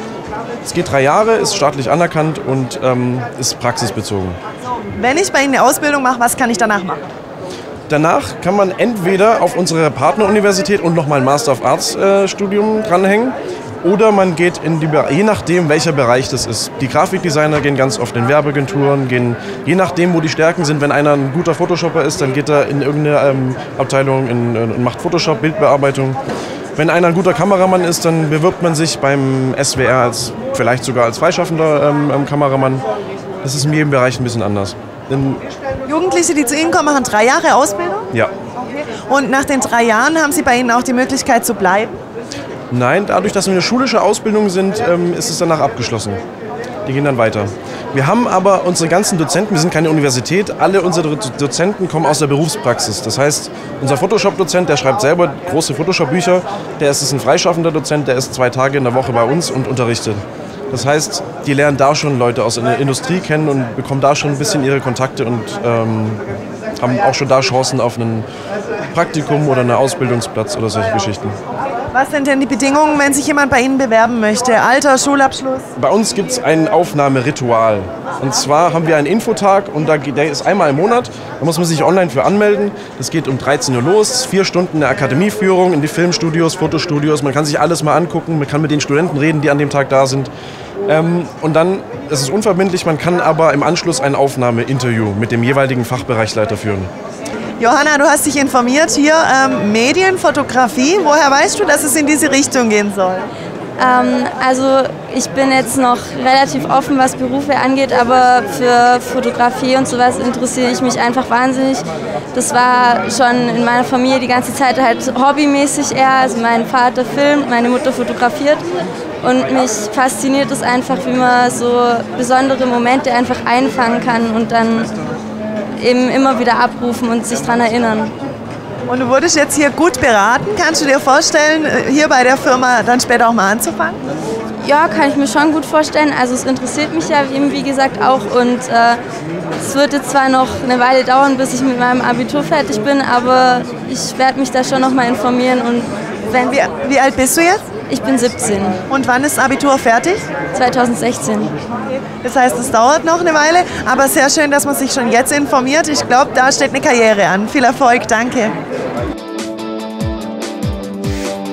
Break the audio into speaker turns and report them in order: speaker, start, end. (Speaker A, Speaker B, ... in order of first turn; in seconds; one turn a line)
Speaker A: 0.6-4.4
Speaker B: 5.0-7.1
Speaker A: 7.9-26.2
Speaker A: 26.8-32.8
Speaker A: 33.4-35.4
Speaker B: 35.9-38.0
Speaker B: 38.6-42.0
Speaker A: 42.7-46.2
Speaker A: 46.9-66.2
Speaker A: 66.8-68.3
Speaker A: 68.9-71.3
Speaker B: 71.9-75.7
Speaker A: 75.8-90.3
Speaker A: 90.9-96.9
Speaker B: 97.6-103.3
Speaker C: 103.8-118.6
Speaker C: 119.2-124.9
Speaker C: 125.8-128.1
Speaker B: 128.9-134.0
Speaker C: 134.6-139.0
Speaker C: 139.6-146.6
Speaker B: 146.5-147.6
Speaker C: 147.9-148.8
Speaker B: 148.9-150.3
Speaker C: 150.5-151.5
Speaker B: 151.9-158.5